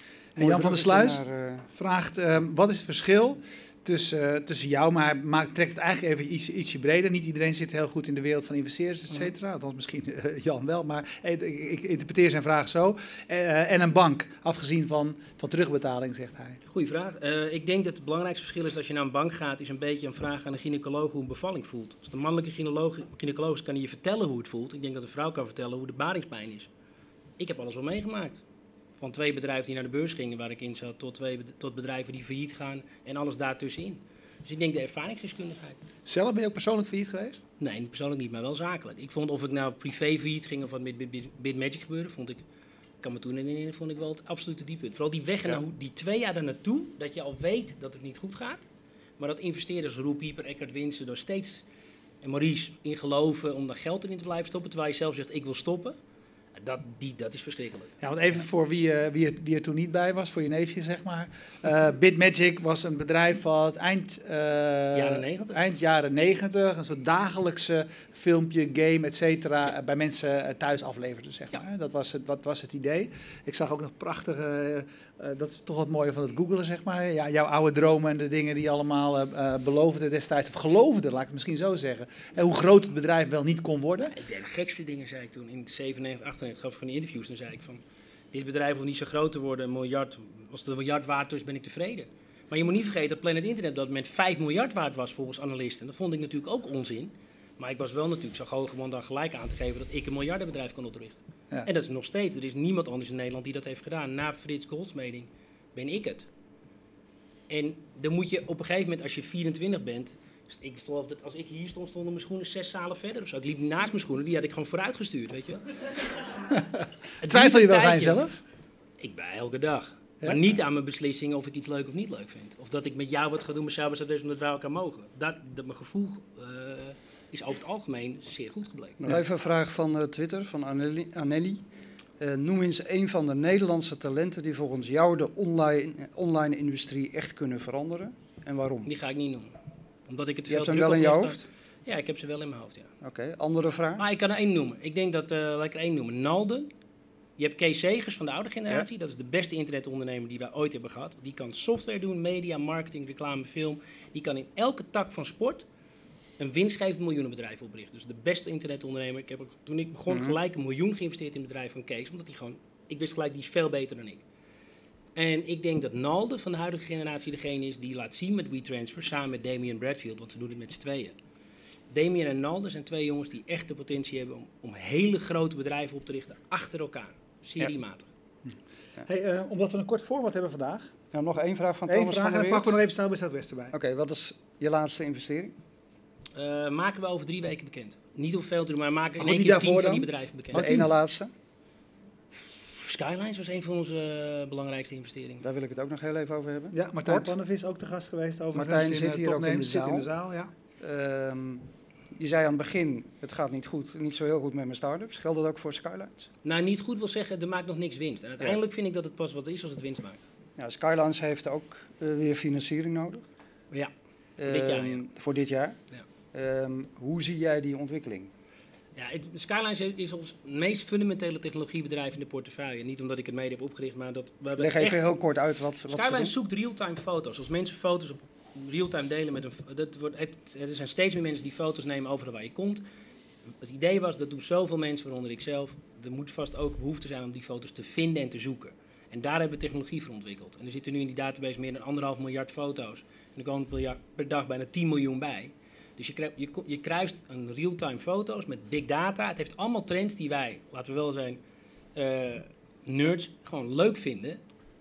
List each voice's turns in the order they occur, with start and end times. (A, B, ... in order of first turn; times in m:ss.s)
0:00.4-0:01.2 A
0:00.4-0:01.7 B
0:01.7-0:16.6 A
0:16.7-0:26.7 C
0:27.4-0:28.4 C
0:29.0-0:35.8 C
0:36.1-0:37.4 A
0:37.6-0:42.4 C
0:43.0-0:48.7 C
0:49.2-0:51.6 C
0:52.2-0:56.0 C
0:56.6-0:58.0 C
0:58.0-1:24.2 A
1:04.9-1:05.6 C
1:24.1-1:46.3 C
1:47.5-1:55.6 C
1:56.5-1:58.4 A
1:57.2-1:58.2 C
1:59.0-2:09.0 C
2:09.0-2:11.6 B
2:12.2-2:18.9 B
2:18.9-2:19.5 C
2:20.1-2:22.9 C
2:20.5-2:21.4 B
2:23.0-2:24.0 B
2:24.0-2:26.7 C
2:27.4-2:35.6 C
2:36.4-2:44.2 C
2:40.1-2:40.4 B
2:45.2-2:51.1 C
2:51.9-2:58.1 C
2:58.5-3:00.9 A
3:01.1-3:02.8 B
3:01.9-3:03.7 A
3:03.7-3:05.6 B
3:06.4-3:10.6 C
3:09.2-3:10.9 A
3:10.5-3:11.3 B
3:12.7-3:15.4 C
3:15.4-3:17.3 B
3:16.7-3:20.5 A
3:18.5-3:20.1 B
3:20.8-3:21.6 B
3:22.2-3:26.3 B
3:26.4-3:30.2 C
3:30.6-3:33.2 B
3:34.4-3:35.8 B
3:34.5-3:35.0 C
3:36.3-3:38.3 B
3:39.0-3:45.0 C
3:44.6-3:46.3 B
3:45.9-3:52.8 C
3:53.6-4:11.4 C
4:12.0-4:14.4 C